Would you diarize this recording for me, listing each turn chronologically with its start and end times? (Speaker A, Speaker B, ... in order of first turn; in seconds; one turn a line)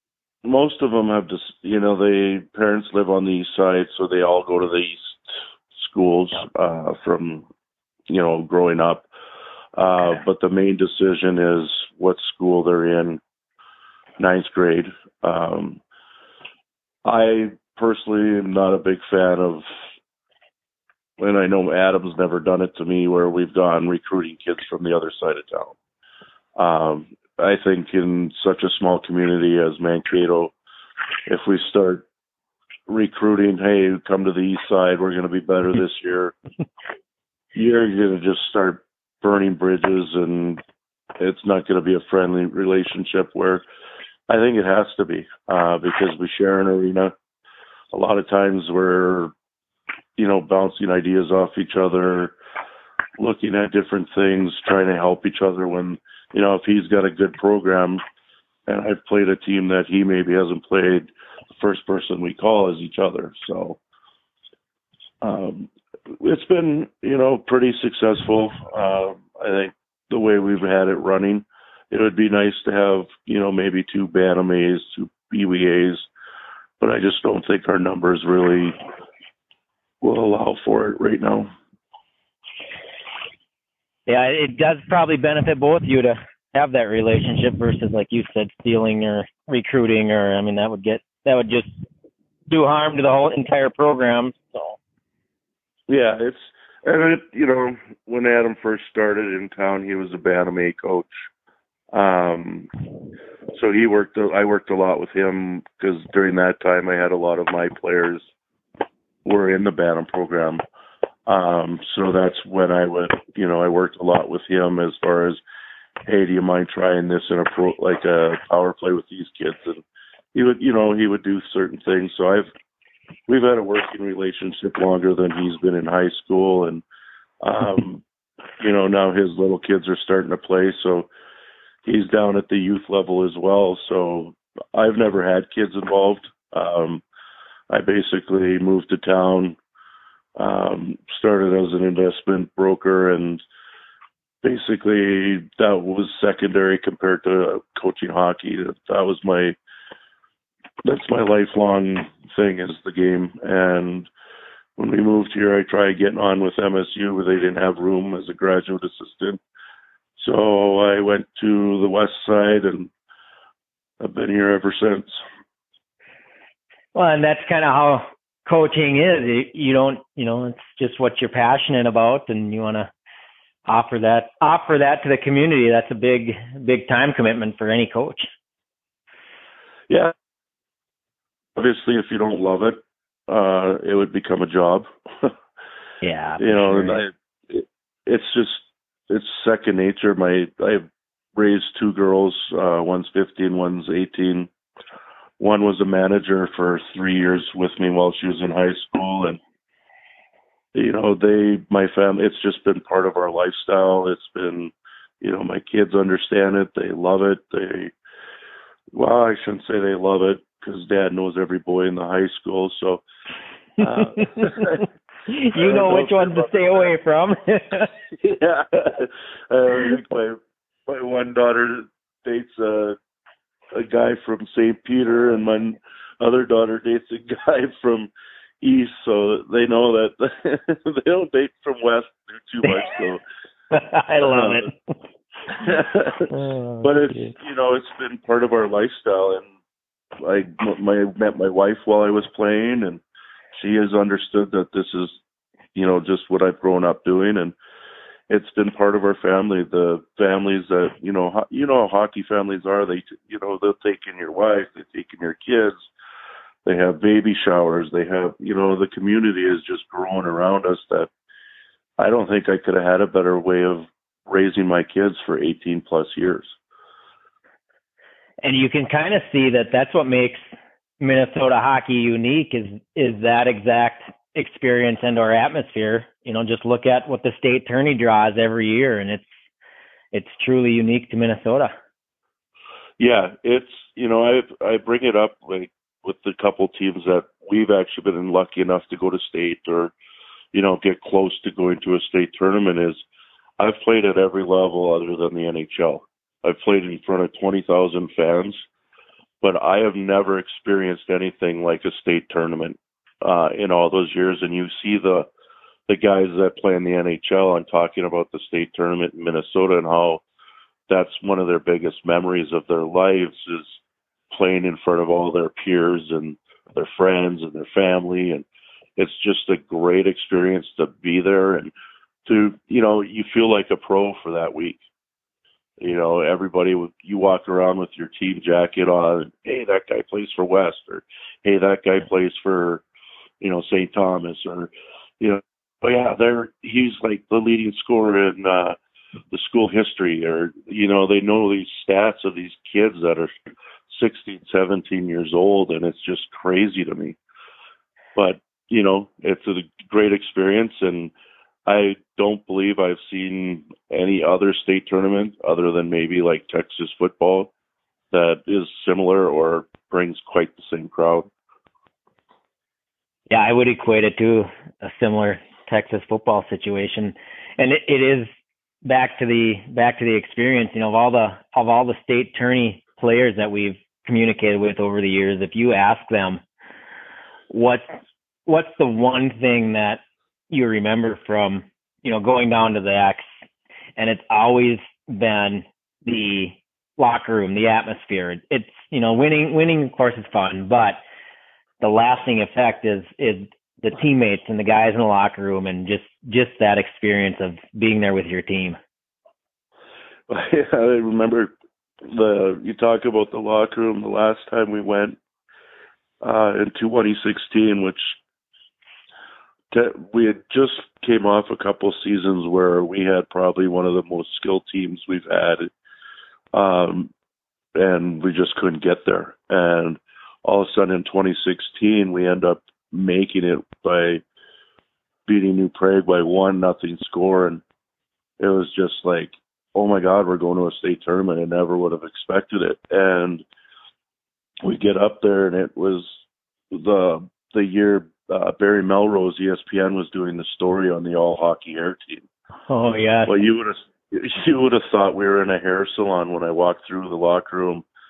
Speaker A: 0.4-5.2
Speaker A: 5.8-7.5
Speaker A: 8.1-9.1
Speaker A: 9.8-13.2
Speaker A: 14.2-15.8
Speaker A: 17.1-19.6
Speaker A: 21.2-25.8
Speaker A: 26.6-30.5
Speaker A: 31.3-32.1
Speaker A: 32.9-36.4
Speaker A: 37.5-40.6
Speaker A: 41.2-43.6
Speaker A: 44.3-47.1
Speaker A: 47.9-49.3
Speaker A: 50.2-52.3
Speaker A: 53.2-58.0
Speaker A: 58.7-63.8
Speaker A: 65.2-76.1
Speaker A: 76.8-78.8
Speaker A: 80.0-81.5
Speaker B: 84.1-91.7
Speaker B: 92.5-94.8
Speaker A: 95.9-101.1
Speaker A: 101.9-102.7
Speaker A: 103.5-108.2
Speaker A: 109.2-110.6
Speaker A: 111.3-115.4
Speaker A: 116.1-119.8
Speaker A: 120.3-122.5
Speaker A: 123.3-126.8
Speaker A: 127.4-128.0
Speaker A: 128.6-131.1
Speaker A: 131.8-137.0
Speaker A: 137.7-139.6
Speaker A: 140.4-143.4
Speaker A: 144.4-149.6
Speaker A: 150.8-154.1
Speaker A: 154.8-159.4
Speaker A: 160.2-162.9
Speaker A: 164.0-165.2
Speaker B: 166.9-172.9
Speaker B: 173.7-178.3
Speaker A: 179.9-180.1
Speaker A: 181.6-185.3
Speaker B: 186.0-187.0
Speaker A: 186.4-194.5
Speaker A: 195.4-199.4
Speaker A: 200.7-207.9
Speaker A: 208.9-213.0
Speaker A: 213.8-214.9
Speaker B: 214.0-217.9
Speaker A: 215.6-216.9
Speaker A: 218.2-223.0
Speaker A: 223.7-228.1
Speaker A: 228.6-233.2
Speaker B: 233.7-234.7
Speaker A: 234.2-234.7
Speaker A: 235.5-239.5
Speaker B: 236.3-237.3
Speaker A: 240.2-243.0
Speaker A: 243.6-245.2
Speaker A: 245.8-247.6
Speaker A: 248.3-255.9
Speaker A: 256.6-261.1
Speaker A: 262.0-266.5
Speaker B: 268.4-270.4
Speaker B: 271.0-279.3
Speaker B: 280.1-281.7
Speaker A: 283.0-289.9
Speaker A: 290.5-293.0
Speaker A: 293.6-298.6
Speaker A: 299.4-305.3
Speaker A: 305.9-310.2
Speaker A: 310.9-313.8
Speaker A: 314.3-318.4
Speaker A: 319.0-321.7
Speaker A: 322.3-324.8
Speaker A: 325.8-332.8
Speaker A: 333.4-338.8
Speaker A: 339.3-343.3
Speaker A: 343.9-347.2
Speaker A: 348.2-351.1
Speaker A: 351.7-357.5
Speaker A: 358.1-361.3
Speaker B: 363.3-368.3
Speaker B: 368.8-376.4
Speaker B: 377.5-383.3
Speaker B: 384.0-391.0
Speaker B: 391.8-398.8
Speaker A: 400.3-401.5
Speaker A: 402.0-405.2
Speaker A: 406.2-408.1
Speaker A: 409.7-415.7
Speaker A: 416.5-417.1
Speaker A: 417.8-424.2
Speaker A: 425.3-427.6
Speaker A: 428.4-433.4
Speaker A: 434.6-436.2
Speaker A: 436.7-442.3
Speaker B: 442.7-443.3
Speaker A: 443.3-447.9